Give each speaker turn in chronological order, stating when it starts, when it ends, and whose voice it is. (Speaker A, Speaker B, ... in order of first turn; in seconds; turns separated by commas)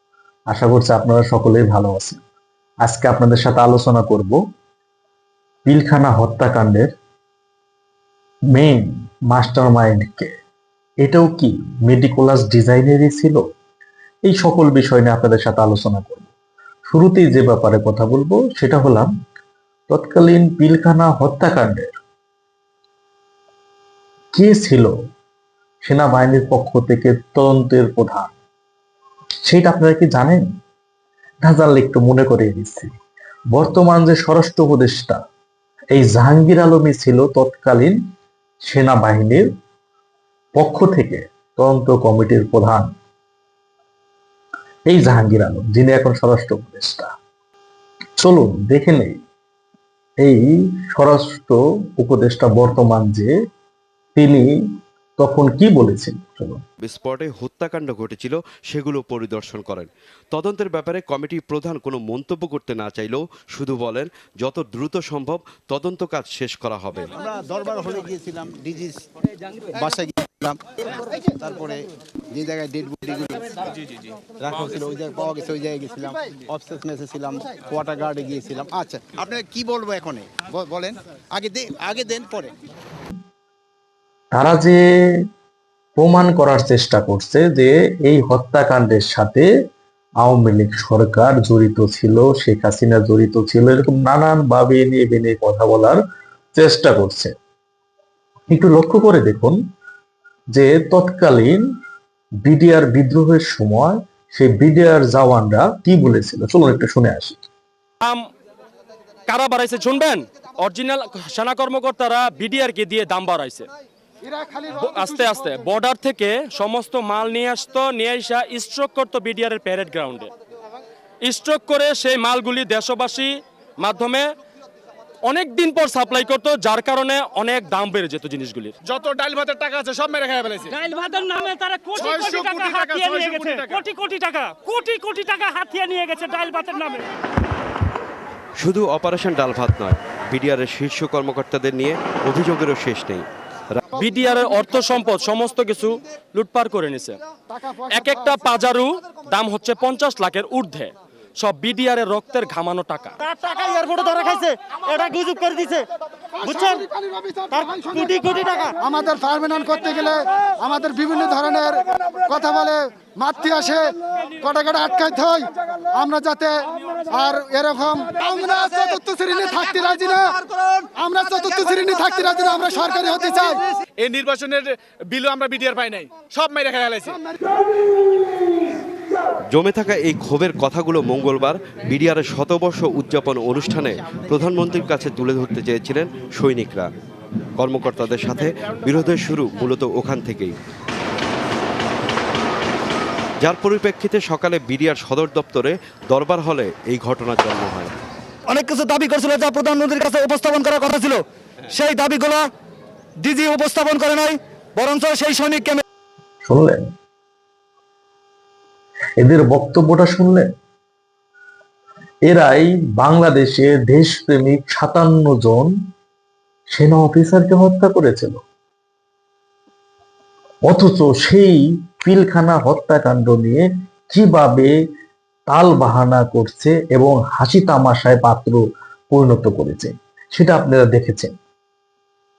Speaker A: 0.5-2.2, Speaker A: 2.9-4.4, Speaker A: 5.7-6.9, Speaker A: 8.6-10.3, Speaker A: 11.0-13.4, Speaker A: 14.3-16.3, Speaker A: 16.9-19.1, Speaker A: 19.9-21.9, Speaker A: 24.3-24.9, Speaker A: 25.9-28.3, Speaker A: 29.4-30.5, Speaker A: 31.4-32.9, Speaker A: 33.5-35.2, Speaker A: 35.9-38.0, Speaker A: 38.6-39.5, Speaker A: 40.6-42.9, Speaker A: 44.9-47.1, Speaker A: 48.2-49.2, Speaker A: 50.2-53.3, Speaker A: 54.1-54.5, Speaker A: 55.2-56.6, Speaker B: 56.8-67.1, Speaker C: 67.2-69.0, Speaker C: 69.8-70.6, Speaker C: 71.2-71.8, Speaker C: 72.3-73.5, Speaker C: 74.4-82.5, Speaker A: 84.3-84.8, Speaker A: 86.0-89.5, Speaker A: 90.2-96.0, Speaker A: 96.5-97.3, Speaker A: 98.5-99.6, Speaker A: 100.5-101.7, Speaker A: 102.4-107.4, Speaker D: 109.3-113.7, Speaker E: 114.3-115.6, Speaker D: 114.8-120.3, Speaker D: 121.2-124.3, Speaker D: 125.3-128.8, Speaker F: 128.8-130.9, Speaker G: 130.8-132.8, Speaker F: 131.9-134.0, Speaker G: 133.8-137.0, Speaker B: 138.6-143.3, Speaker D: 144.0-147.2, Speaker D: 147.9-153.2, Speaker G: 153.2-155.9, Speaker G: 156.4-156.9, Speaker E: 156.8-158.0, Speaker G: 157.5-158.8, Speaker E: 158.8-166.5, Speaker E: 167.1-170.3, Speaker E: 171.0-173.6, Speaker F: 174.0-177.2, Speaker B: 179.5-186.9, Speaker C: 184.1-184.5, Speaker B: 187.6-190.6, Speaker B: 193.4-197.9, Speaker H: 198.5-202.5, Speaker H: 203.2-205.8, Speaker A: 206.4-206.8, Speaker A: 209.2-210.5, Speaker A: 212.3-215.7, Speaker A: 216.7-218.4, Speaker A: 220.7-224.7, Speaker A: 225.5-231.3